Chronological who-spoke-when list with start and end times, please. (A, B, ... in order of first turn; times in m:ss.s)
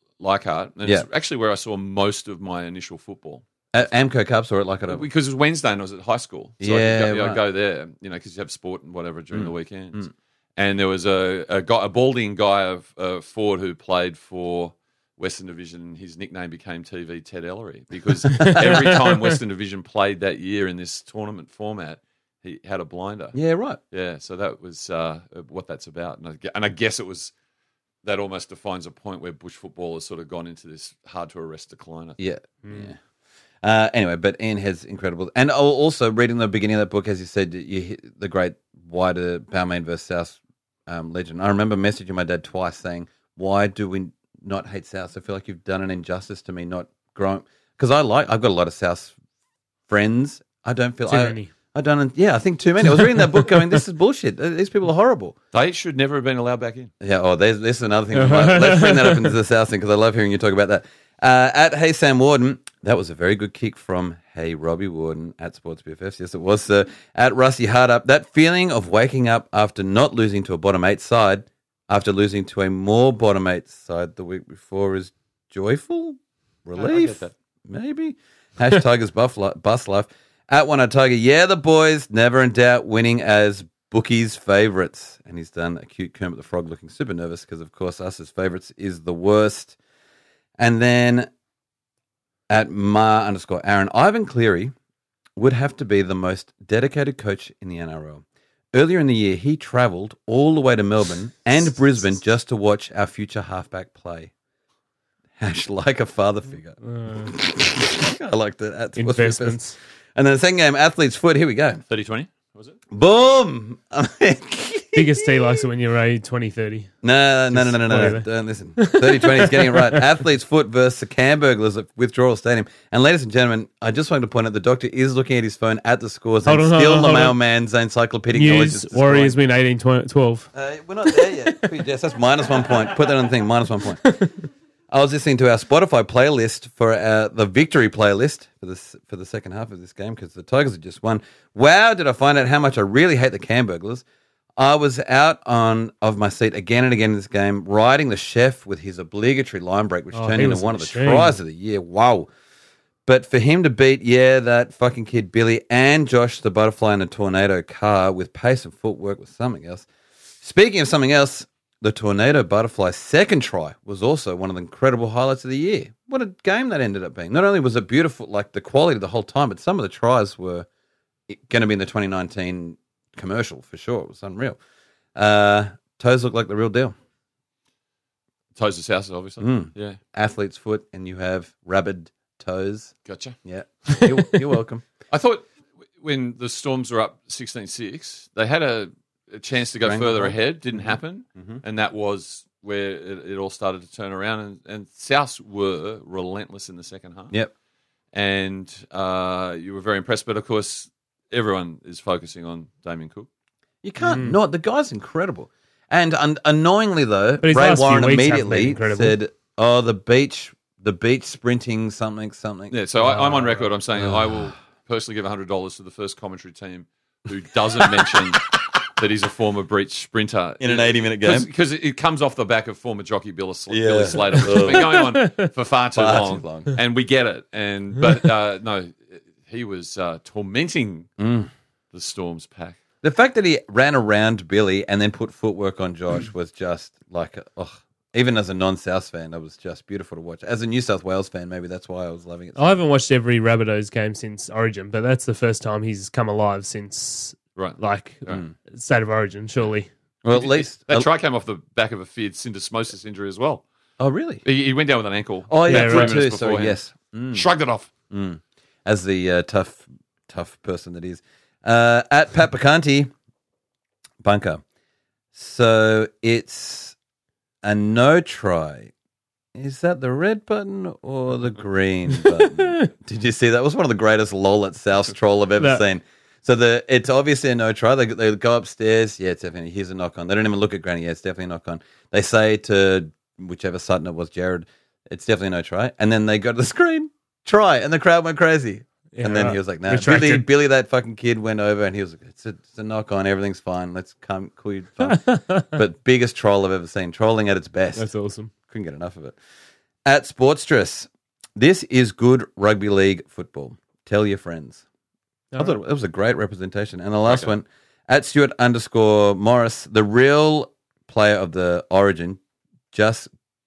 0:00.2-0:03.4 A
0:03.7-0:05.1 B
0:04.9-0:23.4 A
0:06.6-0:07.4 B
0:09.3-0:10.1 B
0:18.4-0:19.1 B
0:23.3-0:23.8 B
0:23.9-0:27.3 A
0:28.0-0:32.2 A
0:32.2-0:33.0 B
0:32.6-0:32.9 C
0:33.6-0:49.1 B
0:49.9-0:55.4 B
0:51.1-0:51.5 C
0:55.5-0:56.9 A
0:57.0-1:29.8 B
0:58.1-0:59.3 C
1:16.8-1:17.3 A
1:30.6-1:31.3 B
1:32.5-1:34.7 B
1:35.4-1:44.3 B
1:45.4-1:49.6 B
1:46.8-1:47.3 C
1:49.0-1:49.8 C
1:50.1-1:51.8 B
1:51.9-1:52.8 A
1:52.9-1:55.6 B
1:54.9-1:56.9 C
1:57.0-2:09.4 B
1:57.5-2:00.1 C
2:06.4-2:07.4 C
2:08.3-2:10.5 C
2:10.5-2:14.2 B
2:11.1-2:11.6 C
2:14.0-2:14.3 C
2:14.9-2:24.0 B
2:24.6-2:32.3 B
2:30.1-2:31.4 C
2:33.1-2:39.9 B
2:40.4-2:50.7 B
2:51.3-2:54.6 B
2:55.1-2:56.9 B
2:58.6-3:00.0 A
2:59.4-3:04.8 B
3:03.1-3:03.4 A
3:05.1-3:05.4 A
3:06.0-3:17.3 A
3:09.8-3:10.4 B
3:18.1-3:23.3 A
3:23.8-3:32.7 B
3:24.0-3:24.4 C
3:27.4-3:29.2 C
3:32.7-3:51.1 A
3:33.0-3:33.6 C
3:34.0-3:34.4 B
3:40.6-3:41.5 B
3:43.7-3:45.1 B
3:45.9-3:46.7 B
3:51.2-3:51.5 B
3:51.9-3:52.8 A
3:53.0-4:02.8 B
4:02.6-4:09.9 C
4:07.6-4:08.4 A
4:10.2-4:11.1 B
4:10.3-4:13.6 A
4:14.0-4:14.4 B
4:14.4-4:16.8 A
4:15.5-4:17.4 B
4:15.7-4:16.2 C
4:17.3-4:17.9 A
4:18.1-4:23.1 B
4:24.2-4:24.6 B
4:25.3-4:27.0 B
4:27.6-4:28.9 B
4:29.6-4:58.1 B
4:32.6-4:32.9 C
4:35.6-4:35.8 C
4:49.1-4:50.5 C
4:55.1-4:55.7 C
4:58.0-4:58.5 C
4:58.7-4:59.4 B
5:00.0-5:04.8 B
5:05.5-5:05.8 C
5:05.6-5:12.4 B
5:12.9-5:13.3 B